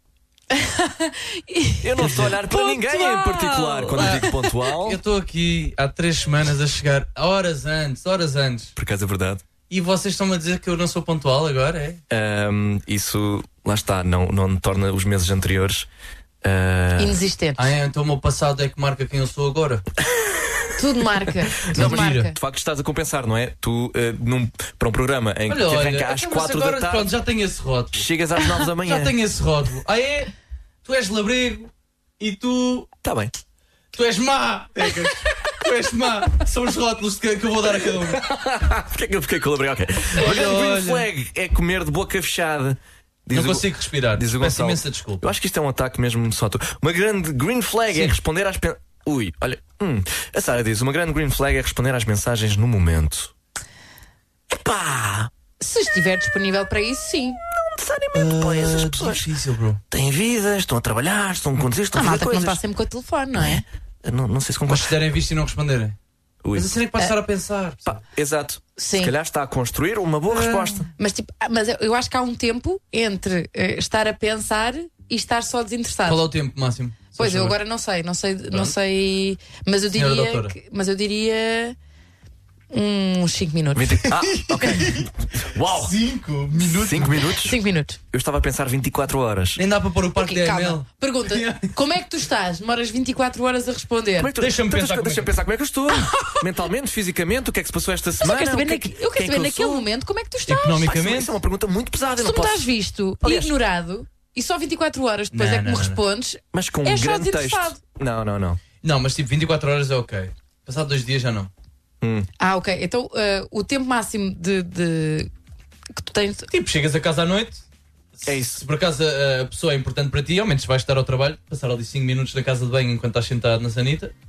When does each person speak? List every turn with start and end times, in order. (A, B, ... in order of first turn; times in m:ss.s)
0:00.5-0:04.5 A
0:01.8-0:05.0 B
0:04.0-0:08.7 C
0:08.8-0:09.4 B
0:09.7-0:12.0 C
0:12.1-0:15.9 B
0:16.4-0:17.2 B
0:17.0-0:17.7 A
0:17.6-0:19.8 C
0:20.2-0:20.4 B
0:20.8-0:22.4 A
0:21.7-0:27.1 B
0:21.7-0:22.3 C
0:25.5-0:28.1 C
0:27.9-0:29.2 B
0:28.8-0:30.3 C
0:30.8-0:32.9 C
0:33.0-0:33.4 B
0:34.0-0:38.3 C
0:37.9-0:53.3 B
0:40.2-0:41.1 C
0:43.3-0:45.3 C
0:54.5-0:55.3 B
0:55.6-0:57.4 A
0:57.5-0:59.3 B
0:58.1-0:59.8 C
0:59.9-1:02.6 B
1:01.9-1:03.6 A
1:03.4-1:05.0 B
1:04.7-1:06.0 C
1:06.4-1:06.7 B
1:06.5-1:08.0 C
1:07.8-1:10.9 B
1:08.8-1:09.1 A
1:10.3-1:10.8 C
1:11.0-1:16.3 A
1:16.1-1:17.6 C
1:17.2-1:21.8 A
1:19.9-1:20.6 C
1:22.7-1:24.1 A
1:23.8-1:25.9 B
1:24.1-1:25.1 C
1:25.6-1:27.3 C
1:26.6-1:27.6 B
1:27.4-1:28.0 A
1:28.1-1:29.6 B
1:29.6-1:31.8 C
1:30.2-1:34.3 A
1:34.2-1:39.9 B
1:34.4-1:35.3 C
1:35.9-1:36.4 A
1:38.2-1:40.9 A
1:40.5-1:41.4 C
1:40.8-1:42.7 B
1:42.2-1:47.8 A
1:43.2-1:43.6 B
1:45.3-1:46.0 C
1:46.5-1:48.6 B
1:48.8-1:51.5 C
1:52.0-1:52.3 B
1:52.4-1:55.3 A
1:55.9-1:56.5 A
1:56.5-1:57.6 C
1:58.2-2:04.1 C
1:58.3-1:58.6 B